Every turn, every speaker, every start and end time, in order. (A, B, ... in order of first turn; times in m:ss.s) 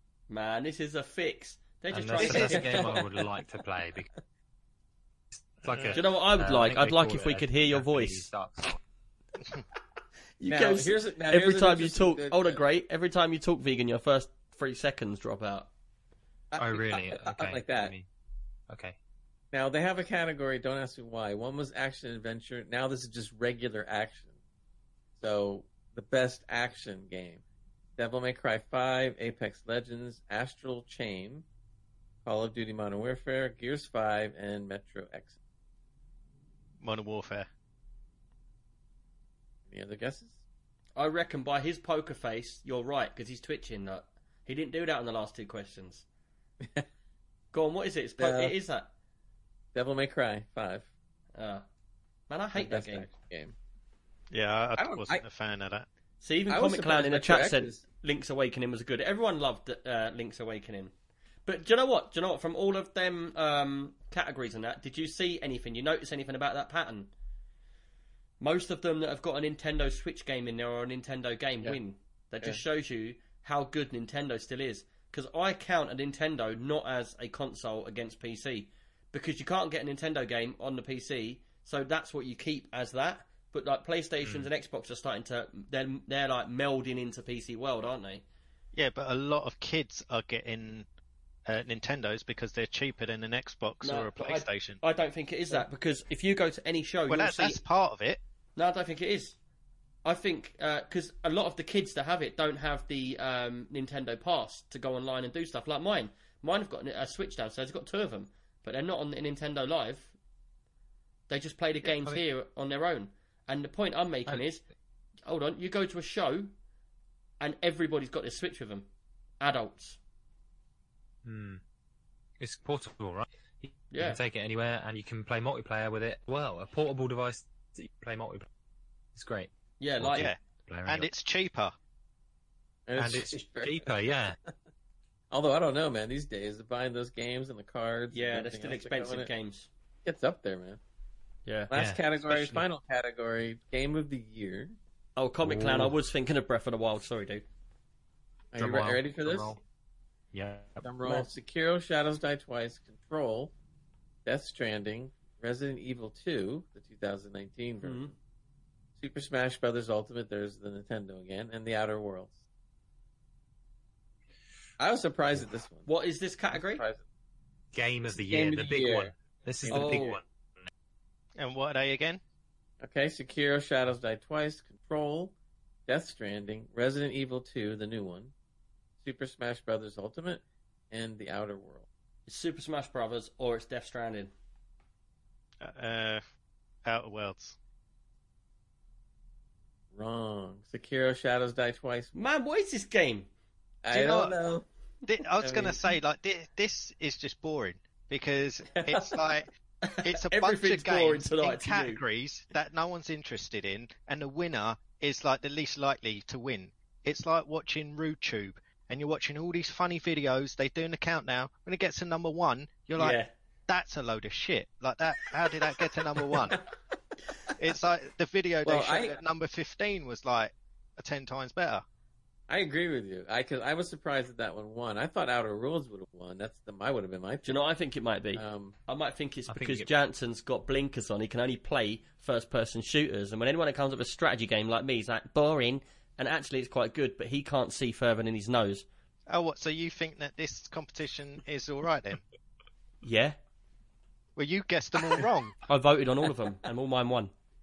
0:00.3-0:03.0 A
0:01.9-0:04.1 B
0:02.2-0:03.2 C
0:02.2-0:02.6 D
0:05.6-0:08.8 B
0:05.7-0:06.0 D
0:05.9-0:08.2 A
0:10.4-0:15.7 A
0:10.4-0:12.6 C
0:16.5-0:17.9 C
0:16.6-0:18.0 B
0:18.7-0:19.0 B
0:19.5-0:24.3 C
0:25.2-0:27.4 C
0:28.0-0:31.4 C
0:32.2-0:35.4 C
0:36.8-0:37.5 D
0:39.7-0:40.4 C
0:41.0-0:46.0 A
0:47.5-0:48.9 A
0:48.2-0:48.5 C
0:49.7-0:50.9 C
0:51.4-0:51.6 A
0:52.3-0:53.1 A
0:52.5-0:53.5 C
0:54.3-0:55.8 D
0:54.8-0:55.2 C
0:56.2-1:00.9 A
0:56.5-0:57.8 C
1:01.4-1:07.1 A
1:08.4-1:28.2 A
1:24.2-1:24.5 B
1:28.7-1:30.8 D
1:31.4-1:34.8 D
1:33.8-1:37.6 A
1:37.1-1:38.2 D
1:38.6-1:39.4 A
1:40.0-1:50.1 A
1:51.3-1:54.6 A
1:55.2-1:56.5 A
1:57.4-1:58.9 A
1:59.4-2:00.0 A
2:01.2-2:01.6 B
2:02.4-2:08.5 B
2:03.9-2:04.2 A
2:09.2-2:11.1 B
2:09.8-2:10.3 A
2:10.1-2:11.7 D
2:12.9-2:13.9 C
2:13.0-2:14.4 B
2:15.3-2:19.3 C
2:18.1-2:19.7 A
2:20.0-2:20.8 C
2:21.7-2:24.8 C
2:21.7-2:22.6 B
2:25.2-2:27.4 A
2:25.4-2:25.9 B
2:28.5-2:29.6 C
2:28.6-2:29.6 B
2:30.3-2:31.3 B
2:30.8-2:33.5 C
2:34.2-2:38.1 C
2:37.8-2:38.1 A
2:39.0-2:42.4 C
2:44.8-2:45.9 C
2:45.8-2:46.8 A
2:46.5-2:47.0 C
2:47.7-2:50.7 B
2:48.1-2:49.1 C
2:49.6-2:50.1 C
2:49.7-2:50.2 A
2:51.4-2:52.2 D
2:52.8-2:55.3 C
2:55.9-2:58.3 C
2:59.0-3:01.8 C
3:02.3-3:04.3 A
3:05.6-3:06.2 D
3:06.8-3:07.6 D
3:09.9-3:12.1 C
3:12.1-3:13.3 A
3:13.8-3:14.6 C
3:15.0-3:19.5 D
3:15.4-3:15.8 C
3:18.8-3:19.1 C
3:19.8-3:22.0 A
3:20.0-3:36.6 D
3:33.0-3:33.3 A
3:37.6-3:41.8 D
3:38.6-3:39.2 C
3:42.5-3:47.6 C
3:47.4-3:58.8 A
3:48.3-3:48.7 C
3:49.5-3:49.9 B
3:59.3-4:02.2 D
4:03.0-4:03.4 A
4:04.4-4:05.6 D
4:05.7-4:07.3 A